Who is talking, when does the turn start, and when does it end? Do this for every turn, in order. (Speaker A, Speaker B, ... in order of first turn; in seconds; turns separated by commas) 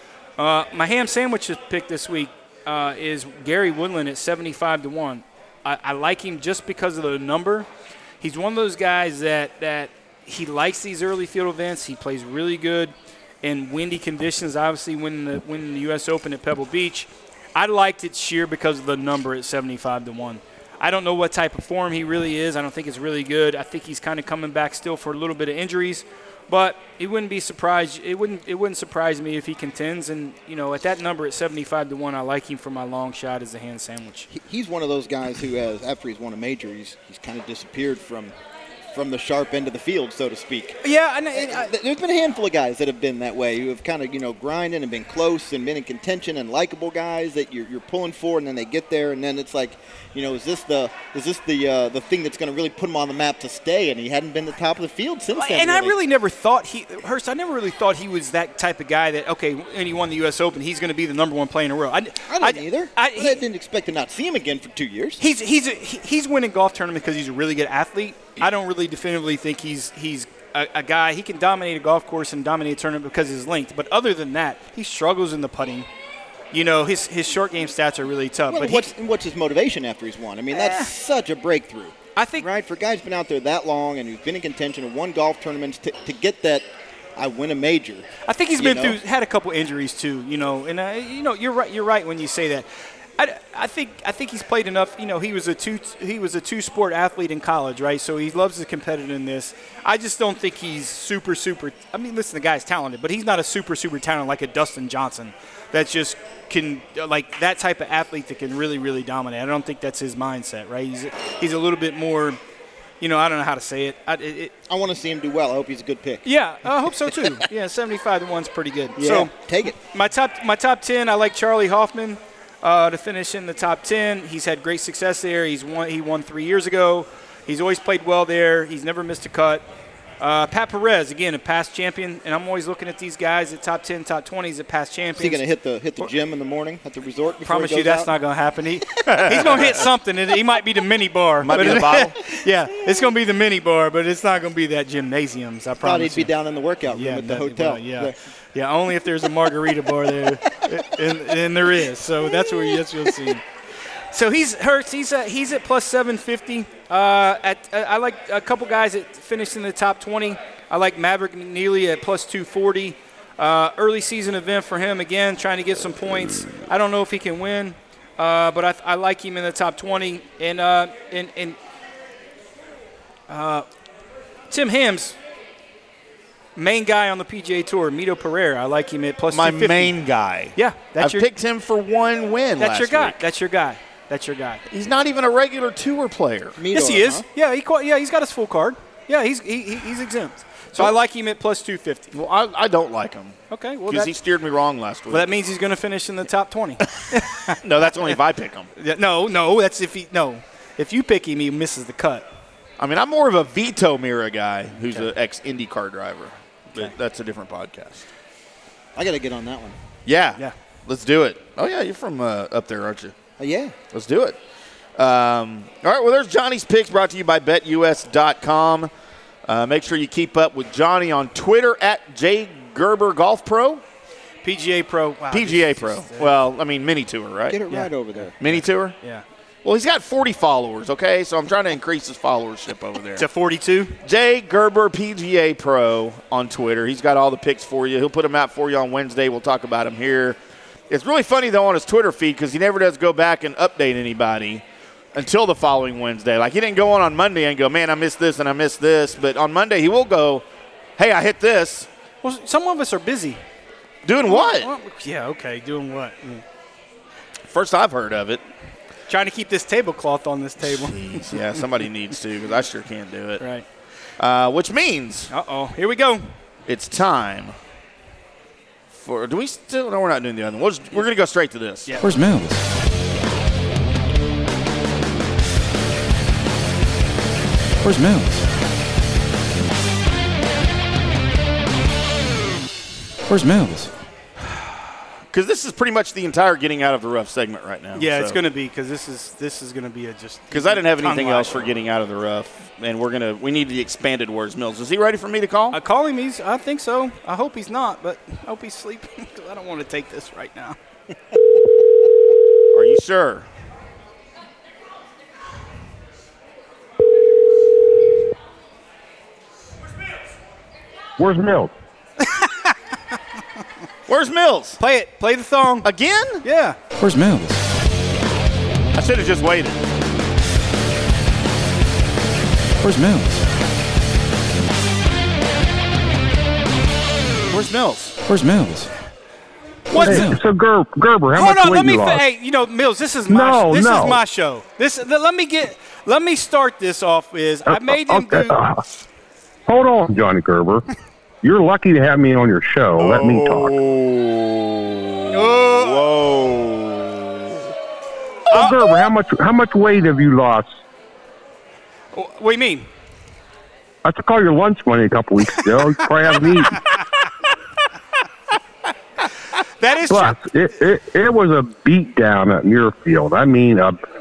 Speaker A: 0.4-7.7, Speaker A: 8.2-34.3, Speaker B: 34.3-38.3, Speaker B: 38.9-40.8, Speaker A: 40.8-41.7, Speaker B: 41.3-55.9, Speaker A: 55.3-63.4, Speaker B: 62.3-65.2, Speaker A: 65.2-75.9, Speaker A: 76.5-78.9, Speaker B: 78.5-89.0, Speaker A: 80.5-80.9, Speaker A: 82.2-82.5, Speaker A: 88.3-92.7, Speaker A: 93.2-112.4, Speaker A: 113.0-114.5, Speaker B: 114.7-116.3, Speaker A: 116.2-129.7, Speaker B: 119.0-119.8, Speaker A: 130.2-135.4, Speaker B: 135.2-138.1, Speaker A: 137.4-146.3, Speaker C: 139.1-139.8, Speaker C: 141.4-142.1, Speaker B: 141.5-142.0, Speaker B: 145.8-148.1, Speaker A: 146.9-153.4, Speaker A: 154.1-171.6, Speaker A: 173.3-173.7, Speaker A: 174.5-175.2, Speaker A: 176.6-179.9, Speaker C: 179.3-183.2, Speaker A: 180.6-181.3, Speaker A: 182.6-184.6, Speaker C: 184.7-186.6, Speaker B: 186.6-187.2, Speaker A: 186.7-192.1, Speaker C: 192.1-195.3, Speaker A: 193.5-194.1, Speaker A: 195.1-197.6, Speaker C: 197.4-198.7, Speaker A: 198.8-202.3, Speaker C: 202.8-208.1, Speaker B: 208.9-209.8, Speaker C: 210.1-213.2, Speaker B: 213.4-213.8, Speaker C: 213.9-214.4, Speaker C: 214.9-218.9, Speaker C: 219.4-223.8, Speaker A: 224.4-226.4, Speaker C: 225.3-227.6, Speaker B: 227.5-228.4, Speaker A: 227.7-229.2, Speaker C: 228.4-228.9, Speaker C: 229.6-233.2, Speaker A: 233.2-234.0, Speaker C: 234.0-250.4, Speaker C: 251.0-251.9, Speaker A: 252.2-253.4, Speaker C: 254.0-254.7, Speaker A: 254.2-256.4, Speaker C: 257.5-258.4, Speaker A: 259.1-261.3, Speaker C: 260.6-263.4, Speaker A: 263.4-263.6, Speaker C: 264.2-265.3, Speaker A: 265.3-266.2, Speaker C: 266.6-267.6, Speaker C: 268.9-271.9, Speaker D: 272.0-272.6, Speaker D: 277.8-278.4, Speaker D: 283.3-283.9, Speaker C: 285.3-288.4, Speaker A: 287.9-291.6, Speaker C: 290.5-295.8, Speaker A: 295.7-300.8, Speaker C: 302.7-303.5, Speaker E: 311.2-311.7, Speaker A: 312.2-312.7, Speaker C: 314.1-314.8, Speaker A: 314.8-315.9, Speaker C: 315.8-316.4, Speaker A: 316.4-316.8, Speaker D: 316.9-317.6, Speaker C: 318.9-319.8, Speaker D: 322.8-323.4, Speaker C: 327.5-328.2, Speaker D: 328.2-328.9, Speaker A: 329.9-330.4, Speaker E: 329.9-332.2, Speaker D: 330.0-330.4, Speaker A: 331.3-338.6, Speaker E: 333.3-334.2, Speaker E: 337.7-338.8, Speaker E: 339.7-340.9, Speaker E: 341.4-343.7, Speaker C: 343.0-347.7, Speaker A: 345.3-346.1, Speaker E: 348.5-350.8, Speaker A: 348.5-348.8, Speaker A: 352.1-352.9, Speaker E: 354.0-356.8, Speaker A: 359.6-360.4, Speaker E: 360.1-364.0